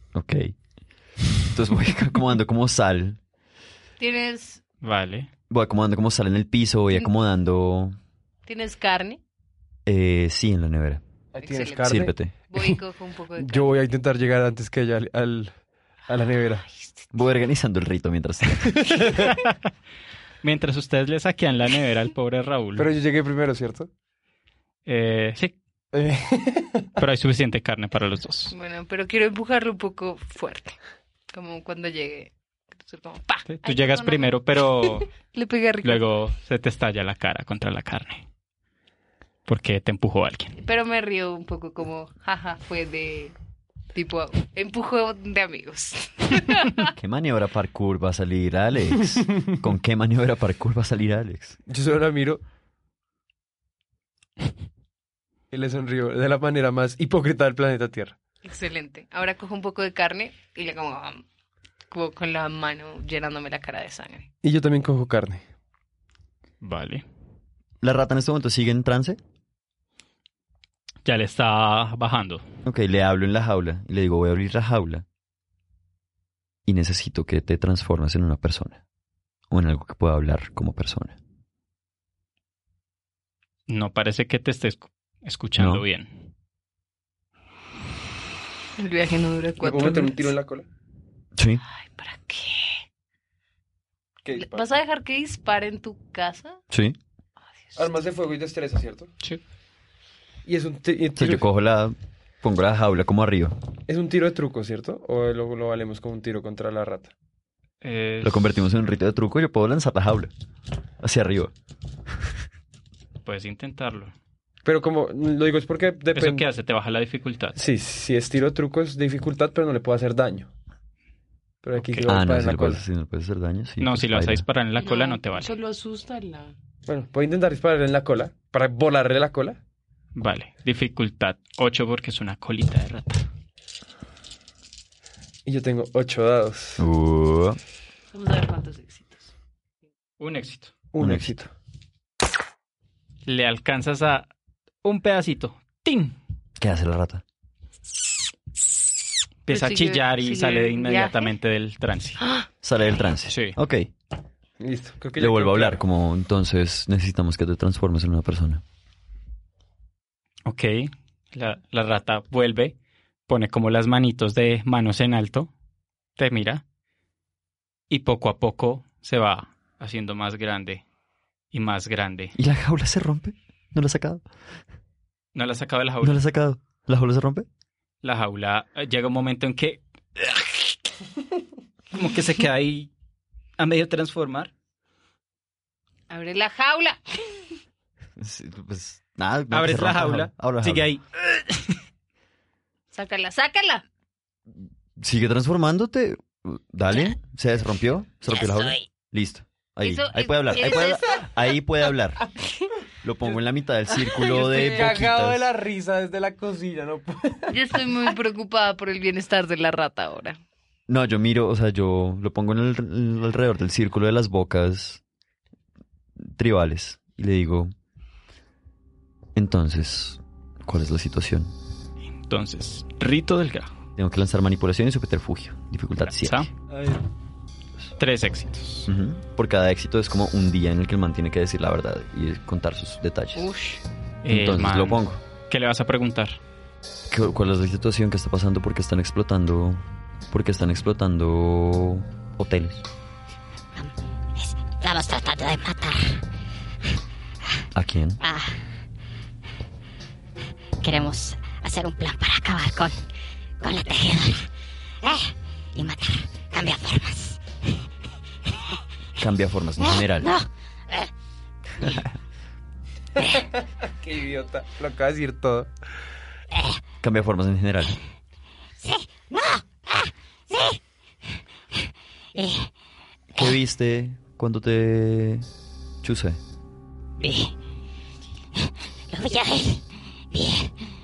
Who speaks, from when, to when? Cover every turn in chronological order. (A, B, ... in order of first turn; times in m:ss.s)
0:00.1-0:00.5 A
0:01.5-0:03.2 A
0:04.0-0:04.6 B
0:04.8-0:05.3 C
0:05.5-0:08.0 A
0:08.4-0:09.2 B
0:09.8-0:11.0 A
0:11.3-0:12.8 D
0:11.4-0:12.0 B
0:11.8-0:12.3 A
0:12.5-0:13.7 B
0:13.4-0:15.5 D
0:16.1-0:16.6 D
0:16.7-0:17.0 B
0:17.1-0:19.0 A
0:18.6-0:19.3 D
0:20.4-0:22.9 C
0:22.8-0:23.9 D
0:24.8-0:25.5 C
0:25.9-0:26.9 D
0:27.0-0:28.5 C
0:28.5-0:30.8 B
0:31.3-0:36.1 B
0:33.5-0:35.1 C
0:35.8-0:38.2 C
0:39.4-0:40.6 C
0:40.6-0:43.3 B
0:43.9-0:46.9 B
0:47.0-0:51.6 A
0:51.7-0:52.4 D
0:55.5-0:58.2 D
0:58.4-1:01.2 B
1:01.9-1:04.3 B
1:04.4-1:05.4 D
1:06.6-1:07.0 C
1:07.8-1:09.2 A
1:11.0-1:12.4 C
1:12.6-1:15.0 A
1:16.6-1:18.8 A
1:19.5-1:21.2 A
1:23.7-1:26.3 C
1:25.6-1:25.8 A
1:28.8-1:30.3 B
1:29.6-1:30.6 D
1:31.4-1:31.6 A
1:31.7-1:32.8 B
1:34.2-1:34.7 D
1:34.4-1:36.6 B
1:36.7-1:37.0 A
1:37.8-1:39.1 D
1:40.4-1:41.4 D
1:41.2-1:43.6 A
1:43.9-1:47.1 D
1:47.8-1:48.4 C
1:48.2-1:50.3 A
1:51.0-1:51.5 A
1:53.2-1:54.1 C
1:54.6-1:56.4 D
1:56.1-1:57.6 C
1:57.6-2:00.5 D
2:01.6-2:02.8 D
2:01.7-2:02.1 C
2:02.1-2:04.5 A
2:03.8-2:05.5 C
2:04.8-2:06.5 B
2:06.9-2:09.6 D
2:10.1-2:13.2 C
2:15.4-2:16.8 D
2:16.8-2:17.6 A
2:18.1-2:19.3 B
2:20.2-2:20.7 C
2:20.9-2:21.5 D
2:21.0-2:21.3 A
2:23.2-2:24.3 C
2:24.8-2:26.2 C
2:26.6-2:27.2 A
2:29.5-2:31.3 B
2:29.5-2:32.2 C
2:32.2-2:32.5 B
2:32.6-2:33.9 A
2:33.3-2:33.6 C
2:34.6-2:35.8 D
2:35.2-2:38.6 A
2:40.4-2:42.8 C
2:43.3-2:45.5 C
2:46.2-2:46.6 C
2:47.9-2:50.8 C
2:51.5-2:52.3 C
2:52.4-2:54.2 A
2:55.3-2:56.2 C
2:56.0-2:57.5 A
2:58.0-3:00.6 C
3:01.9-3:02.9 C
3:03.6-3:04.5 C
3:06.1-3:07.4 B
3:08.2-3:10.9 A
3:09.5-3:11.8 C
3:12.9-3:13.8 B
3:15.0-3:22.3 A
3:19.8-3:21.3 B
3:23.0-3:25.4 A
3:24.0-3:27.9 D
3:27.5-3:30.4 B
3:30.9-3:35.0 A
3:36.2-3:37.7 A
3:39.4-3:41.5 A
3:42.2-3:43.8 C
3:44.0-3:46.5 A
3:46.0-3:46.5 C
3:46.7-3:47.0 D
3:48.0-3:48.9 C
3:48.9-3:53.5 A
3:53.4-3:53.8 B
3:54.2-3:56.4 C
3:54.3-3:55.2 A
3:57.1-4:02.8 A
4:03.8-4:06.2 E
4:07.7-4:08.2 A
4:08.2-4:08.6 E
4:10.8-4:13.0 E
4:13.6-4:14.5 E
4:15.0-4:17.8 E
4:19.2-4:20.3 A
4:19.8-4:21.1 E
4:21.8-4:22.0 E
4:23.8-4:25.7 D
4:26.5-4:26.8 E
4:27.0-4:28.0 A
4:28.8-4:30.8 E
4:32.3-4:32.7 E
4:33.3-4:35.5 A
4:36.0-4:36.4 A
4:37.2-4:37.5 E
4:38.6-4:40.8 E